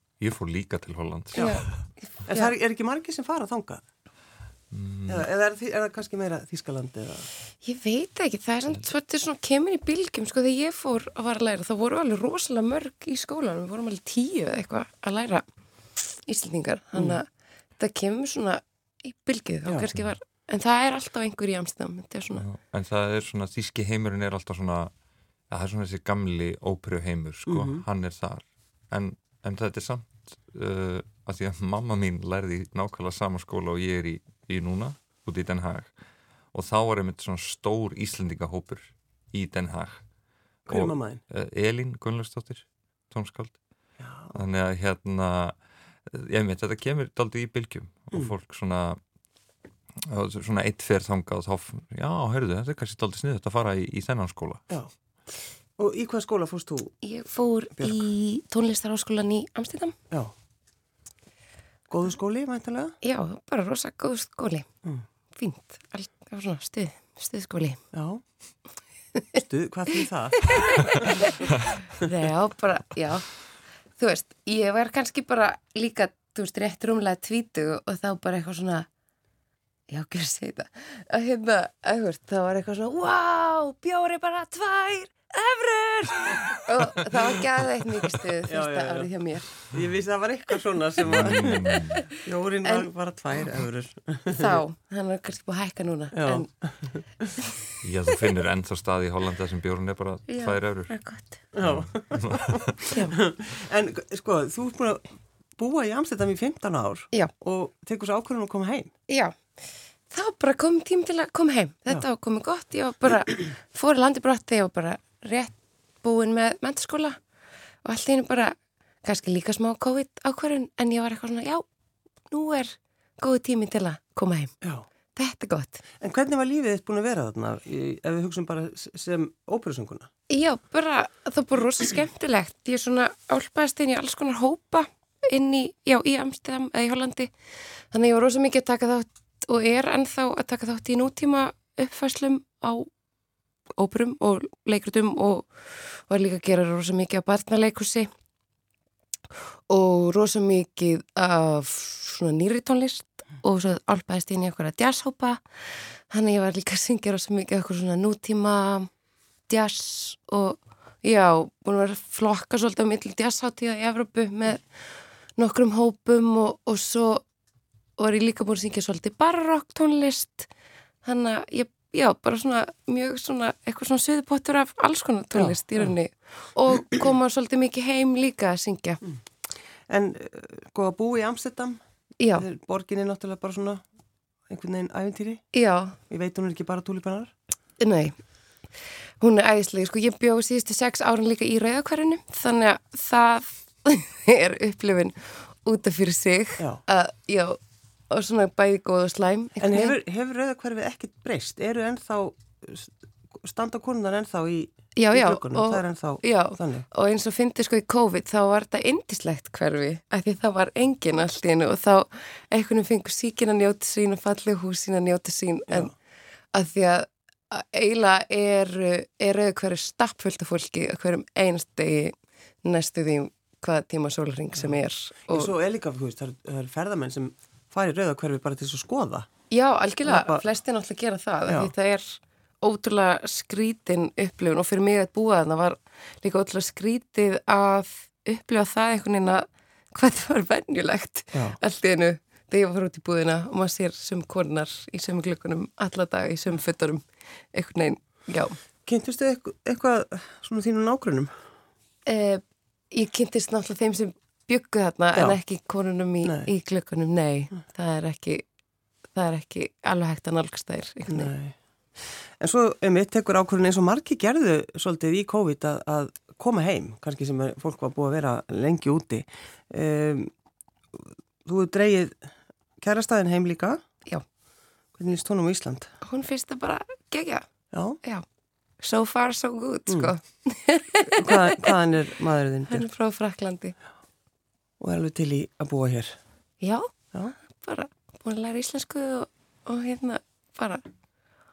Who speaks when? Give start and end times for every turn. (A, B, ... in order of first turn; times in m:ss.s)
0:00.2-0:01.7 A
0:01.4-0:02.5 B
0:01.4-0:01.6 C
0:02.3-0:03.8 C
0:04.7-0:05.3 A
0:05.1-0:07.3 C
0:07.6-0:15.4 B
0:16.0-0:17.3 B
0:17.8-0:22.5 B
0:22.4-0:24.9 A
0:25.5-0:35.9 A
0:27.5-0:27.8 C
0:36.5-0:40.0 A
0:40.7-0:41.2 C
0:40.7-0:43.6 A
0:44.0-0:44.4 C
0:44.3-0:49.0 A
0:50.0-0:54.6 A
0:55.8-0:57.0 C
0:57.0-1:00.0 B
0:57.8-0:58.0 C
1:01.9-1:03.0 C
1:03.0-1:04.7 B
1:05.4-1:07.8 B
1:07.9-1:08.2 C
1:09.4-1:11.5 C
1:10.4-1:13.3 B
1:14.0-1:18.9 B
1:19.9-1:29.5 B
1:28.5-1:34.6 C
1:31.0-1:32.0 A
1:31.2-1:32.1 B
1:34.3-1:36.5 B
1:36.1-1:37.3 C
1:37.8-1:40.9 A
1:40.3-1:41.4 B
1:41.5-1:45.0 C
1:41.6-1:42.9 A
1:42.9-1:43.2 B
1:45.6-1:48.9 C
1:49.1-1:49.4 B
1:50.1-1:57.2 B
1:57.8-2:01.6 B
2:02.3-2:04.5 B
2:05.2-2:05.8 B
2:06.0-2:10.1 C
2:10.3-2:17.3 B
2:17.9-2:22.9 B
2:23.8-2:28.1 B
2:29.7-2:38.9 B
2:39.5-2:44.6 B
2:45.4-2:47.2 B
2:48.0-2:50.5 B
2:51.0-2:59.0 B
2:55.4-2:55.9 C
2:59.9-3:01.8 C
3:02.2-3:02.5 B
3:02.4-3:03.8 C
3:04.5-3:05.5 C
3:05.5-3:06.0 B
3:06.1-3:07.3 C
3:07.8-3:08.2 B
3:09.2-3:17.6 B
3:18.1-3:20.0 B
3:19.6-3:26.9 C
3:25.0-3:35.9 B
3:36.5-3:45.5 B
3:45.3-3:49.3 C
3:49.5-4:08.6 B
3:50.0-3:50.4 C
3:51.5-3:51.7 C
4:01.3-4:01.6 C
4:08.9-4:11.3 C
4:12.1-4:18.4 B
4:16.2-4:16.5 C
4:19.2-4:21.3 B
4:21.1-4:21.6 C
4:22.4-4:30.3 C
4:31.0-4:32.2 C
4:32.8-4:33.8 C
4:35.0-4:35.9 C
4:36.0-4:37.5 B
4:37.7-4:38.0 C
4:38.8-4:41.7 B
4:39.9-4:40.1 C
4:41.1-4:42.8 C
4:42.7-4:43.8 B
4:44.8-4:46.2 C
4:46.6-4:46.9 B
4:47.5-4:50.8 B